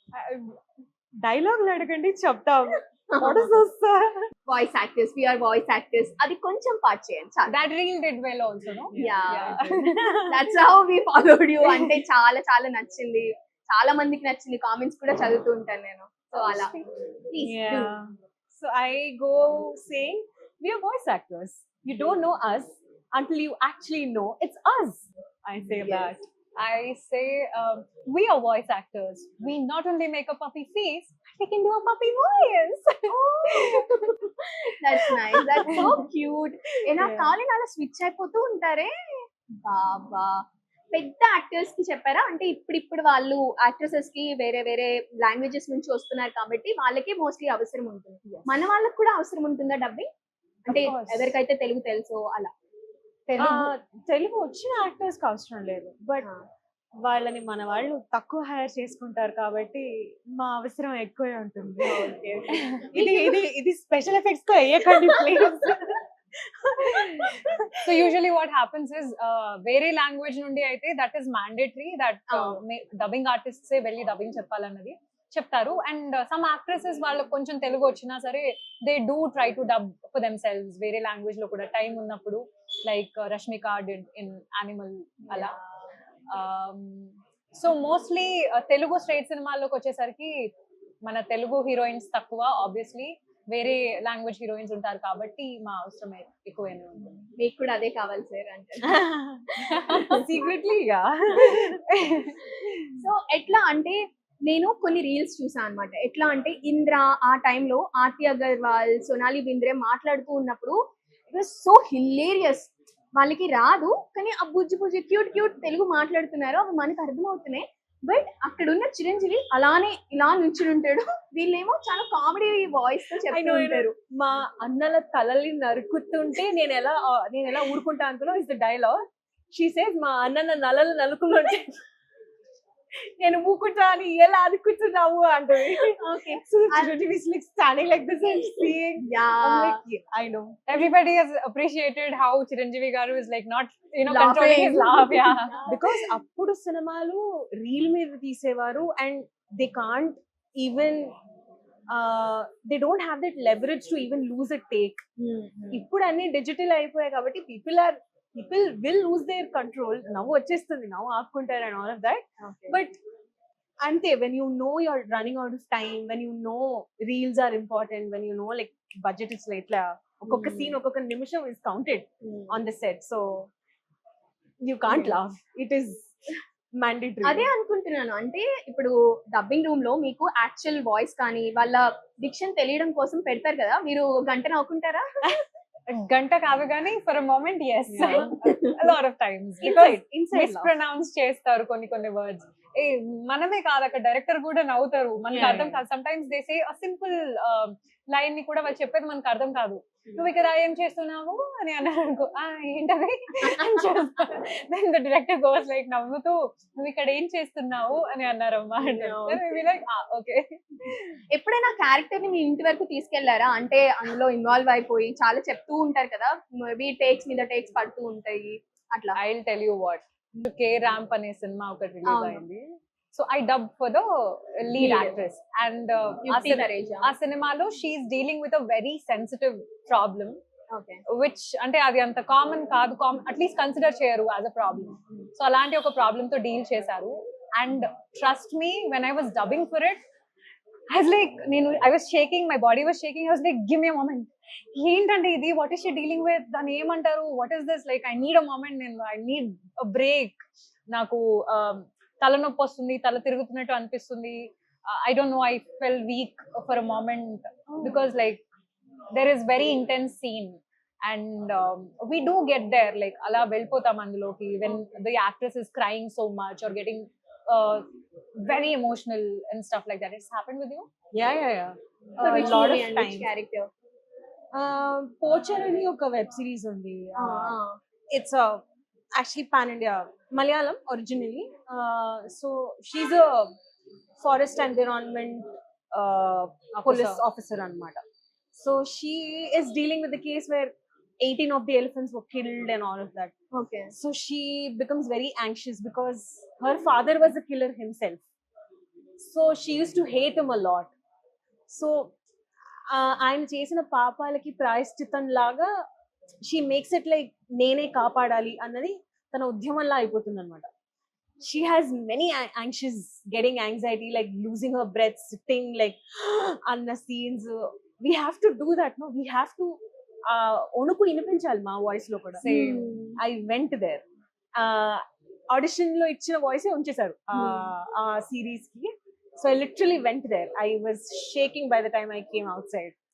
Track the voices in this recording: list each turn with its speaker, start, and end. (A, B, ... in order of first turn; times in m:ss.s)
0:00.2-0:00.6 A
0:01.2-0:04.2 A
0:03.1-0:03.5 B
0:04.5-0:07.6 B
0:07.5-0:10.1 C
0:08.9-0:10.3 A
0:09.0-0:09.6 B
0:10.2-0:16.8 B
0:16.3-0:16.9 C
0:17.3-0:17.9 B
0:17.4-0:26.3 A
0:25.7-0:26.2 B
0:26.6-0:33.9 C
0:33.1-0:34.2 B
0:34.8-0:38.9 B
0:37.0-0:37.3 A
0:39.6-0:50.1 B
0:48.2-0:48.5 A
0:50.7-0:52.5 B
0:50.7-0:51.4 A
0:53.3-0:53.7 C
0:53.4-0:56.3 A
0:57.0-1:02.1 A
1:01.8-1:03.4 B
1:02.9-1:08.1 A
1:04.9-1:05.7 B
1:06.9-1:07.3 C
1:07.8-1:25.5 C
1:12.3-1:12.6 B
1:25.3-1:25.5 B
1:26.3-1:30.5 C
1:31.0-1:37.0 C
1:37.0-1:39.0 B
1:38.9-1:41.8 A
1:39.6-1:40.2 B
1:42.8-1:50.8 B
1:51.3-2:03.9 B
2:03.2-2:09.0 A
2:09.5-2:11.8 A
2:13.2-2:20.6 A
2:15.8-2:17.0 B
2:18.6-2:19.8 B
2:20.7-2:25.6 C
2:24.1-2:26.1 B
2:25.7-2:31.2 A
2:31.9-2:35.0 A
2:35.2-2:35.9 B
2:35.7-2:43.0 A
2:42.4-2:42.8 B
2:43.8-2:53.5 A
2:50.3-2:50.8 B
2:52.2-2:52.6 B
2:54.6-2:56.1 A
2:54.9-2:55.2 B
2:56.8-2:57.5 A
2:57.2-3:05.3 B
3:05.9-3:31.1 C
3:07.9-3:08.4 A
3:08.0-3:08.8 B
3:09.6-3:10.7 A
3:15.3-3:15.8 A
3:23.4-3:23.9 B
3:28.9-3:29.4 B
3:31.3-3:39.2 B
3:39.2-3:50.4 C
3:42.0-3:42.4 B
3:44.8-3:45.2 B
3:46.2-3:47.1 B
3:50.7-3:51.0 B
3:51.1-4:00.0 C
3:54.8-3:55.3 B
4:00.9-4:10.4 C
4:10.9-4:18.4 C
4:17.7-4:18.0 B
4:19.1-4:27.9 C
4:28.4-4:30.9 C
4:31.1-4:33.3 A
4:32.2-4:33.7 B
4:34.5-4:37.6 A
4:37.2-4:37.8 B
4:38.1-4:38.6 A
4:39.2-4:43.5 A
4:44.2-4:48.0 A
4:46.7-4:47.2 C
4:48.5-4:53.3 A
4:53.5-4:53.9 B
4:53.9-4:58.2 A
4:59.2-5:00.9 A
5:01.7-5:02.1 A
5:02.9-5:05.7 A
5:06.4-5:10.7 A
5:11.4-5:22.4 A
5:22.4-5:22.9 C
5:22.4-5:23.2 B
5:23.2-5:24.0 A
5:24.6-5:32.9 A
5:27.4-5:27.7 B